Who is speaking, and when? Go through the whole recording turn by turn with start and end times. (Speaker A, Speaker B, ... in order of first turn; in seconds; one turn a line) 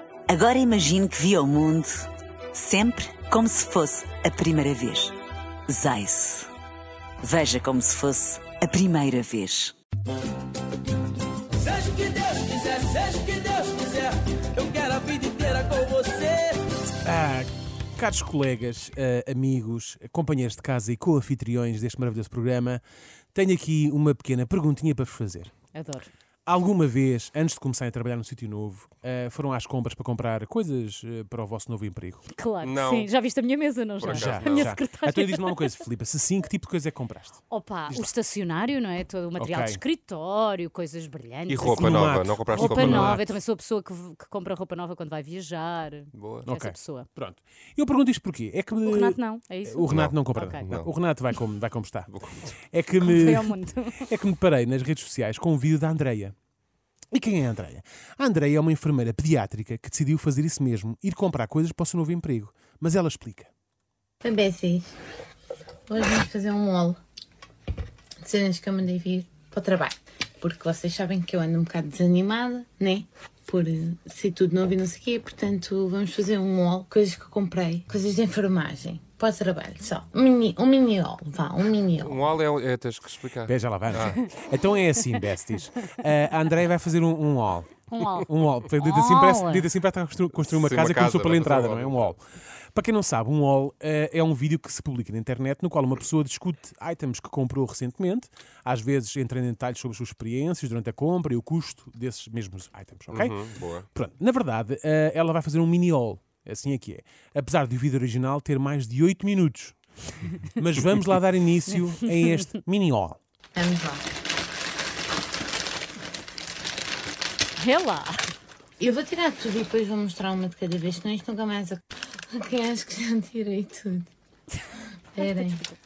Speaker A: 0.3-5.2
Speaker A: 5.7-6.5
Speaker A: 7.2-9.7
Speaker B: 11.8-16.4
Speaker C: 17.0-22.8
Speaker C: 23.3-25.5
Speaker D: 25.7-26.1
Speaker C: 26.4-32.2
Speaker D: 32.3-35.8
Speaker E: 32.6-33.1
Speaker E: 34.0-34.8
Speaker C: 34.1-38.1
Speaker D: 37.5-47.1
Speaker C: 39.4-39.8
Speaker E: 41.5-43.2
Speaker C: 41.7-43.3
Speaker E: 46.1-46.5
Speaker C: 46.5-52.1
Speaker D: 48.8-50.7
Speaker E: 49.9-50.9
Speaker E: 52.1-52.5
Speaker C: 52.7-53.5
Speaker D: 53.0-54.1
Speaker C: 54.1-56.3
Speaker C: 57.1-63.5
Speaker F: 64.2-65.0
Speaker F: 65.9-67.0
Speaker F: 68.2-82.2
Speaker E: 82.0-84.2
Speaker C: 83.5-92.2
Speaker D: 87.9-88.3
Speaker D: 88.8-89.7
Speaker E: 90.5-92.2
Speaker C: 92.7-103.4
Speaker E: 103.1-103.9
Speaker C: 103.9-109.8
Speaker C: 110.6-113.2
Speaker D: 111.9-112.5
Speaker F: 113.5-114.0
Speaker D: 117.6-118.3
Speaker F: 118.8-124.1
Speaker F: 125.1-125.7
Speaker D: 125.2-125.7